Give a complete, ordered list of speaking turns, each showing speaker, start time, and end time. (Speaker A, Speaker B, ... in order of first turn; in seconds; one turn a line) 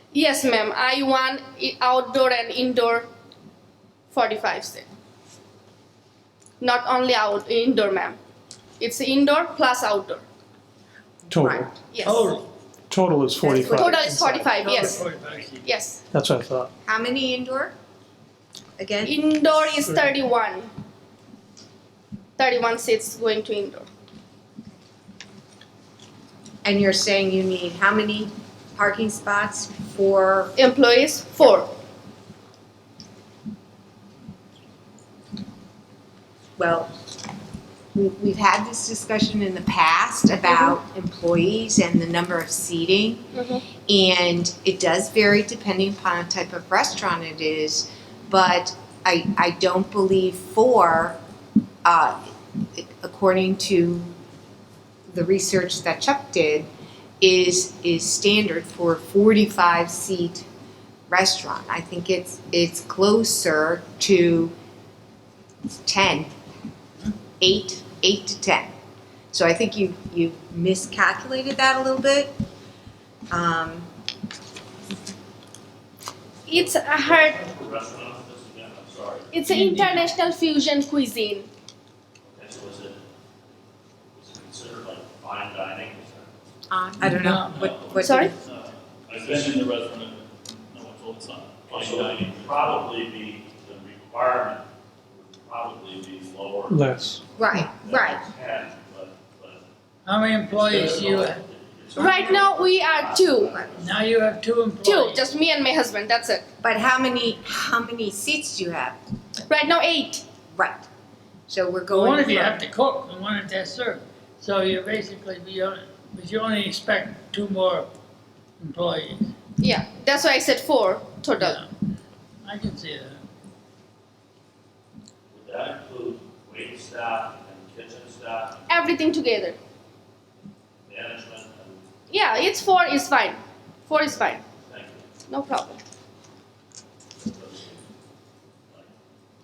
Speaker A: 0.1-3.1
Speaker A: 4.1-4.9
Speaker A: 6.6-8.2
Speaker A: 8.8-10.2
Speaker B: 11.3-11.7
Speaker C: 11.3-11.7
Speaker A: 11.9-12.3
Speaker D: 12.0-12.5
Speaker C: 12.9-14.3
Speaker B: 13.4-14.1
Speaker A: 13.4-15.0
Speaker B: 14.6-15.0
Speaker D: 14.7-15.6
Speaker A: 15.6-16.0
Speaker C: 16.1-16.7
Speaker B: 16.8-17.8
Speaker B: 18.8-19.8
Speaker A: 19.0-20.7
Speaker A: 22.4-23.9
Speaker B: 26.6-30.6
Speaker A: 30.6-31.7
Speaker B: 36.6-36.9
Speaker B: 37.9-43.3
Speaker A: 43.3-43.6
Speaker B: 43.9-51.2
Speaker B: 51.8-54.1
Speaker B: 55.1-56.7
Speaker B: 57.2-60.5
Speaker B: 61.1-64.5
Speaker B: 65.8-66.3
Speaker B: 67.4-68.7
Speaker B: 69.3-72.3
Speaker B: 73.3-73.9
Speaker A: 76.5-77.4
Speaker E: 76.5-79.3
Speaker A: 79.3-81.5
Speaker D: 79.5-80.1
Speaker E: 82.3-83.0
Speaker E: 84.2-86.3
Speaker B: 86.7-88.3
Speaker D: 87.1-87.7
Speaker E: 87.6-88.0
Speaker A: 88.0-88.3
Speaker F: 88.5-92.9
Speaker E: 88.5-89.7
Speaker E: 91.7-99.6
Speaker C: 96.7-97.2
Speaker B: 97.4-98.3
Speaker D: 100.1-101.4
Speaker E: 100.5-104.0
Speaker A: 102.0-103.6
Speaker D: 103.8-105.3
Speaker A: 104.8-106.4
Speaker B: 106.6-109.0
Speaker A: 109.5-110.2
Speaker B: 110.5-110.9
Speaker B: 111.5-112.6
Speaker D: 111.9-117.9
Speaker D: 118.6-119.3
Speaker A: 119.6-121.6
Speaker D: 121.4-121.7
Speaker D: 122.4-123.2
Speaker E: 125.3-128.6
Speaker A: 128.7-129.6
Speaker E: 130.9-131.9
Speaker A: 132.1-134.4
Speaker E: 134.7-135.0
Speaker A: 135.3-135.8
Speaker E: 137.2-137.8